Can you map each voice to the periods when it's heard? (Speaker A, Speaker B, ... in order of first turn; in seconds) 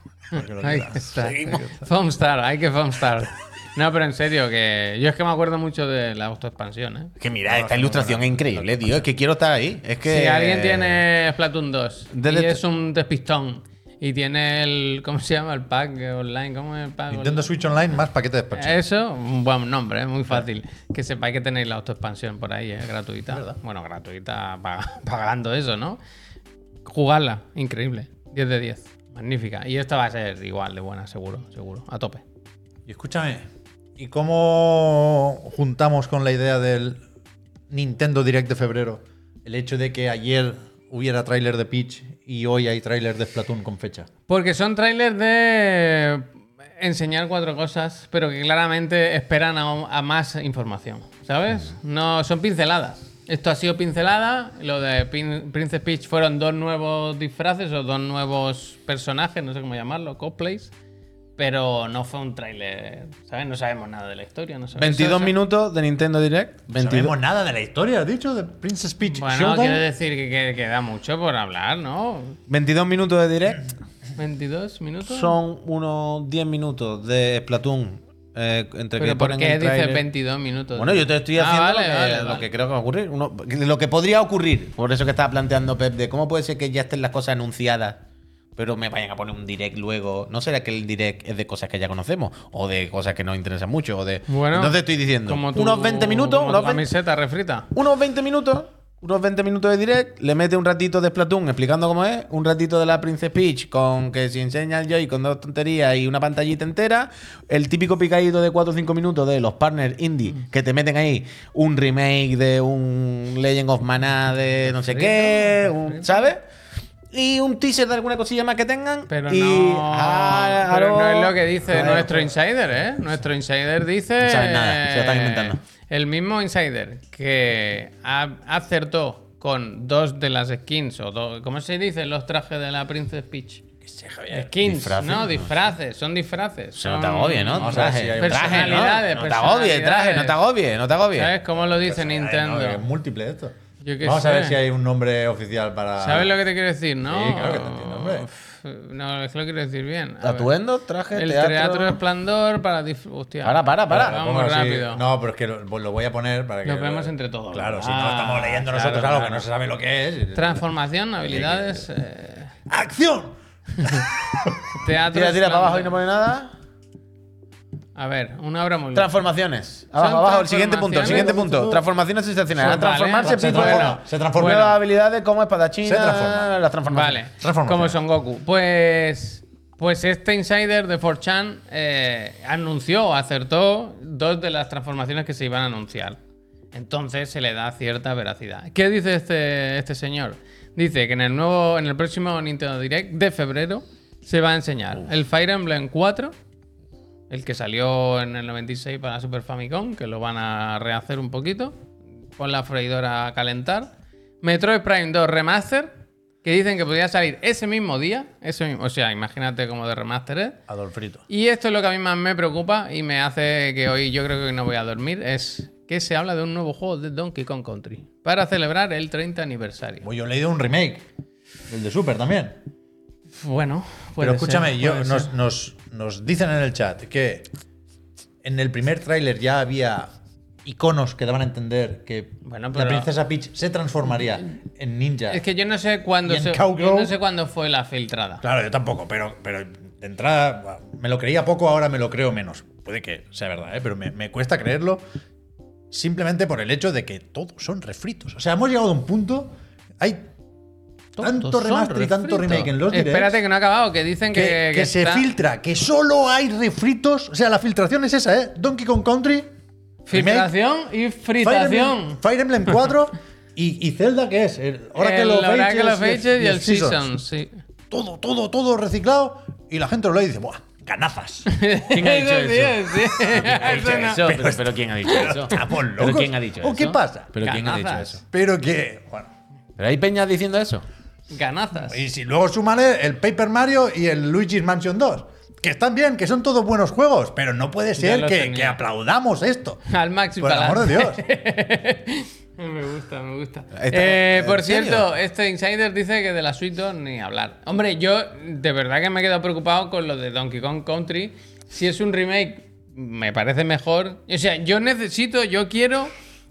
Speaker A: 0.3-7.1, 10.0-17.5, 18.5-26.0, 26.8-32.2, 44.3-60.7, 61.4-65.4, 69.0-72.4, 74.2-75.4, 79.0-82.5, 94.3-97.7, 114.7-116.2, 119.1-133.6, 134.3-140.4, 141.2-142.8, 143.8-144.6, 146.0-150.5, 151.1-155.0, 156.6-159.5, 160.3-162.5, 163.8-164.1, 164.7-166.0, 167.9-169.1, 169.9-171.4, 172.5-174.7, 176.9-186.2, 186.7-196.3, 197.3-201.8, 202.4-210.6, 211.3-220.1, 223.4-225.3, 232.4-233.1, 235.3-238.4, 251.2-255.3, 260.1-262.2, 264.9-267.5, 271.4-274.2, 275.1-275.3, 277.4-278.2, 281.3-282.0, 287.9-288.8, 289.9-306.1
Speaker B: 0.3-1.8, 7.5-9.1, 17.1-18.8, 23.3-23.6, 32.9-33.4, 34.0-37.0, 37.7-44.1, 66.8-69.8, 121.8-122.1, 133.8-134.5, 137.5-138.9, 141.5-146.3, 147.1-148.3, 153.9-160.6, 161.3-161.8, 162.7-164.6, 171.0-171.8, 173.2-174.8, 175.8-176.5, 177.4-178.0, 210.7-211.2, 220.0-221.1, 221.7-222.6, 224.2-227.5, 228.4-230.1, 230.6-235.4, 236.2-237.2, 238.4-245.0, 245.9-250.2, 251.2-253.4, 254.3-259.5, 260.1-260.5, 261.4-267.1, 267.9-271.5, 273.3-279.3, 281.9-289.8, 290.4-291.2
Speaker C: 7.2-11.0, 12.1-12.6, 64.8-67.1, 72.5-73.6, 75.0-80.0, 80.7-88.0, 88.5-96.9, 97.7-116.4, 117.1-122.2, 124.2-125.6, 134.6-135.5, 136.8-141.3, 150.2-152.0, 153.4-154.2, 165.1-166.5, 168.9-177.2, 271.9-278.2, 279.8-280.9, 293.8-295.1